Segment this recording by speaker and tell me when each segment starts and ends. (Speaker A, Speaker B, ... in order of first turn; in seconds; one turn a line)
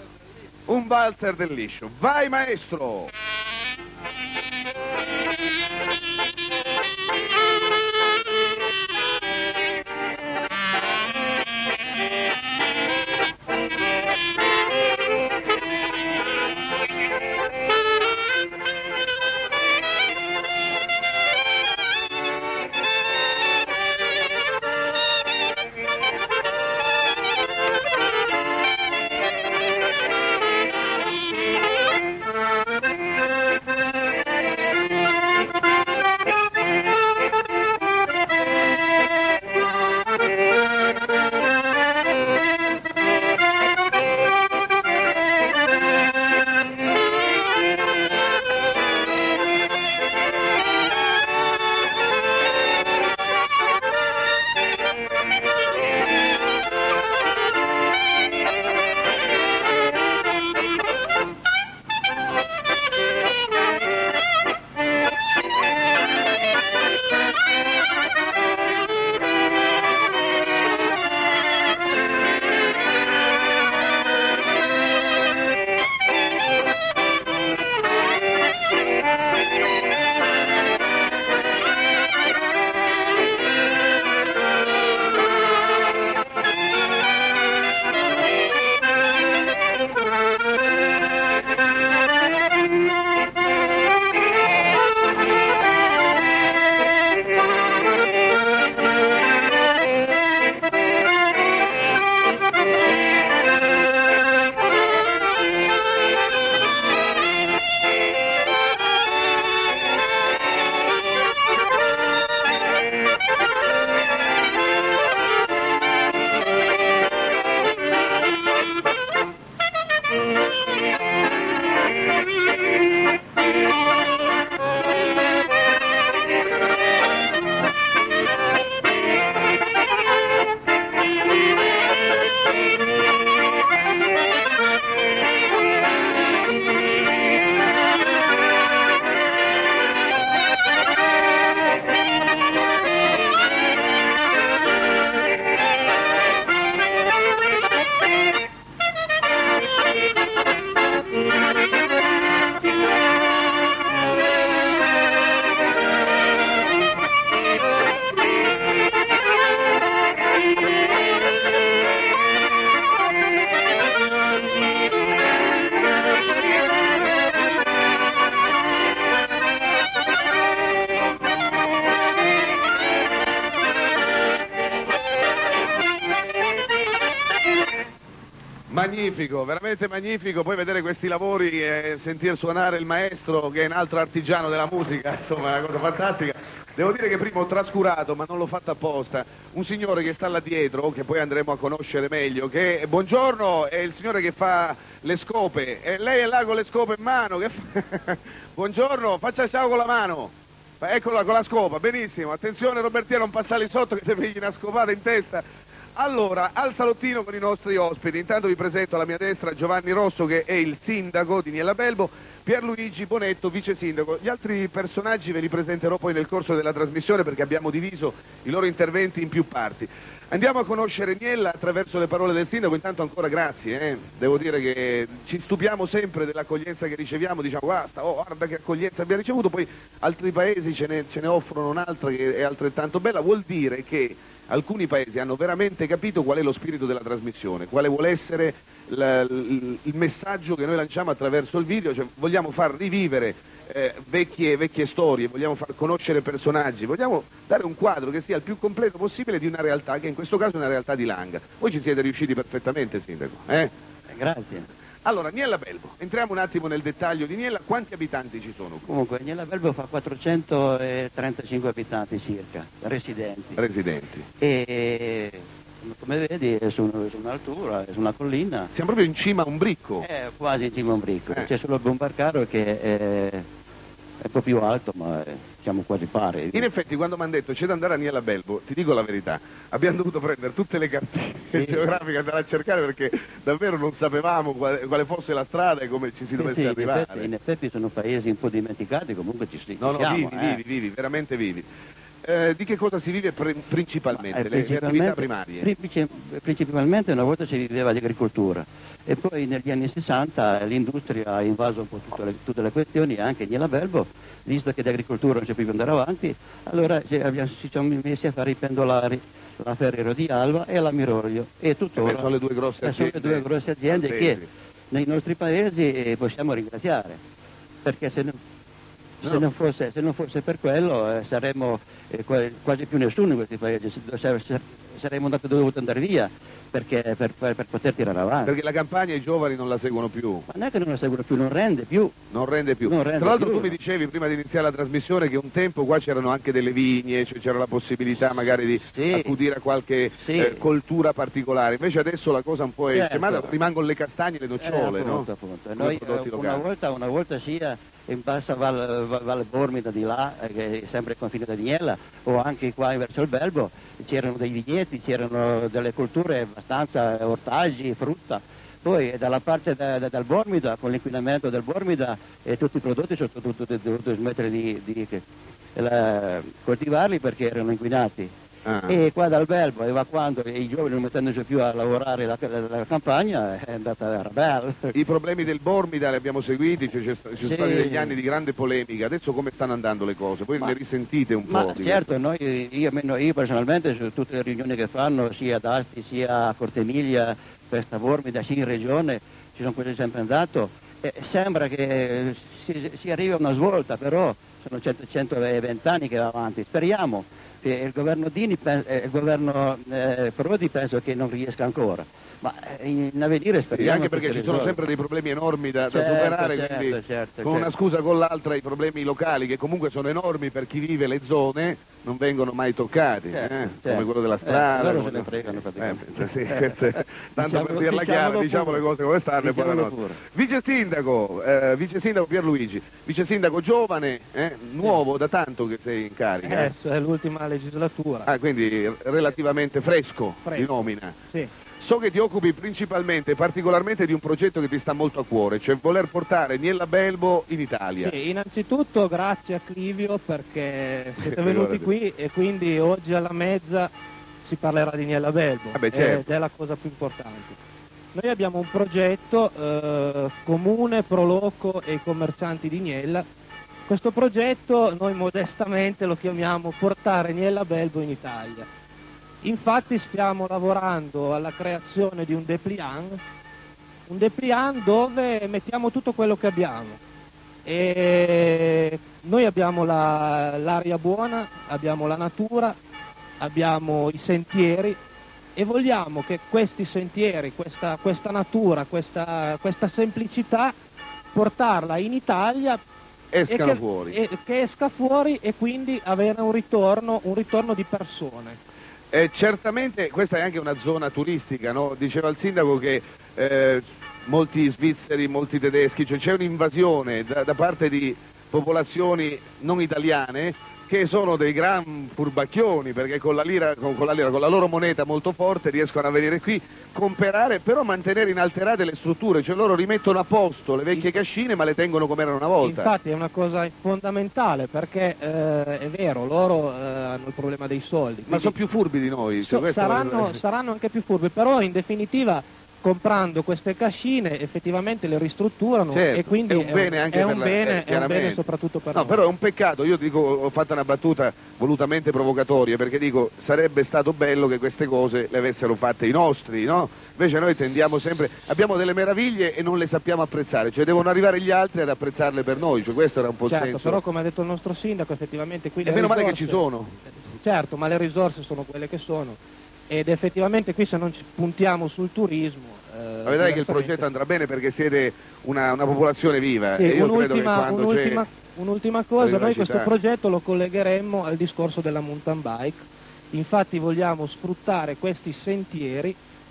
Speaker A: 0.7-3.1
Speaker A: 178.7-205.4
Speaker A: 206.0-253.7
Speaker B: 254.1-254.7
Speaker A: 255.1-258.8
Speaker B: 258.8-263.6
Speaker A: 263.6-264.3
Speaker B: 264.4-268.7
Speaker A: 268.7-270.1
Speaker B: 270.0-273.5
Speaker B: 274.2-276.7
Speaker A: 276.5-287.3
Speaker B: 281.5-281.9
Speaker B: 286.4-290.6
Speaker A: 289.8-291.7
Speaker A: 292.2-295.7
Speaker B: 294.2-312.3
Speaker A: 312.0-314.5
Speaker B: 312.8-317.2
Speaker B: 317.8-318.4
Speaker B: 319.2-328.5
Speaker A: 328.4-330.4
Speaker B: 330.5-332.1
Speaker A: 332.3-345.3
Speaker B: 332.9-333.8
Speaker B: 338.8-339.3
Speaker B: 340.2-340.6
Speaker B: 342.9-343.6
Speaker B: 344.6-365.2
Speaker A: 345.8-346.6
Speaker B: 365.8-368.3
Speaker A: 368.6-369.0
Speaker B: 368.9-374.9
Speaker A: 374.9-382.1
Speaker B: 377.4-378.2
Speaker B: 381.5-404.8
Speaker A: 403.7-426.7
Speaker B: 405.9-407.7
Speaker B: 413.3-418.9
Speaker B: 419.4-420.2
Speaker C: 426.4-428.3
Speaker A: 428.3-431.2
Speaker C: 430.4-430.7
Speaker A: 431.8-438.1
Speaker C: 438.0-443.9
Speaker A: 441.2-441.9
Speaker C: 444.4-447.6
Speaker A: 445.7-446.2
Speaker C: 448.1-453.2
Speaker C: 453.9-458.7
Speaker C: 459.4-463.2
Speaker C: 464.1-467.0
Speaker C: 467.7-472.8
Speaker C: 473.4-475.0
Speaker C: 475.6-480.7
Speaker C: 481.3-482.8
Speaker A: 483.3-484.2
Speaker C: 483.5-488.6
Speaker A: 489.1-512.9
Speaker C: 512.6-518.6
Speaker A: 518.3-520.4
Speaker C: 519.4-529.2
Speaker A: 525.9-528.4
Speaker A: 528.9-544.0
Speaker C: 543.5-546.6
Speaker A: 545.8-546.9
Speaker C: 547.2-554.0
Speaker A: 553.2-558.2
Speaker C: 556.8-566.2
Speaker A: 559.2-559.9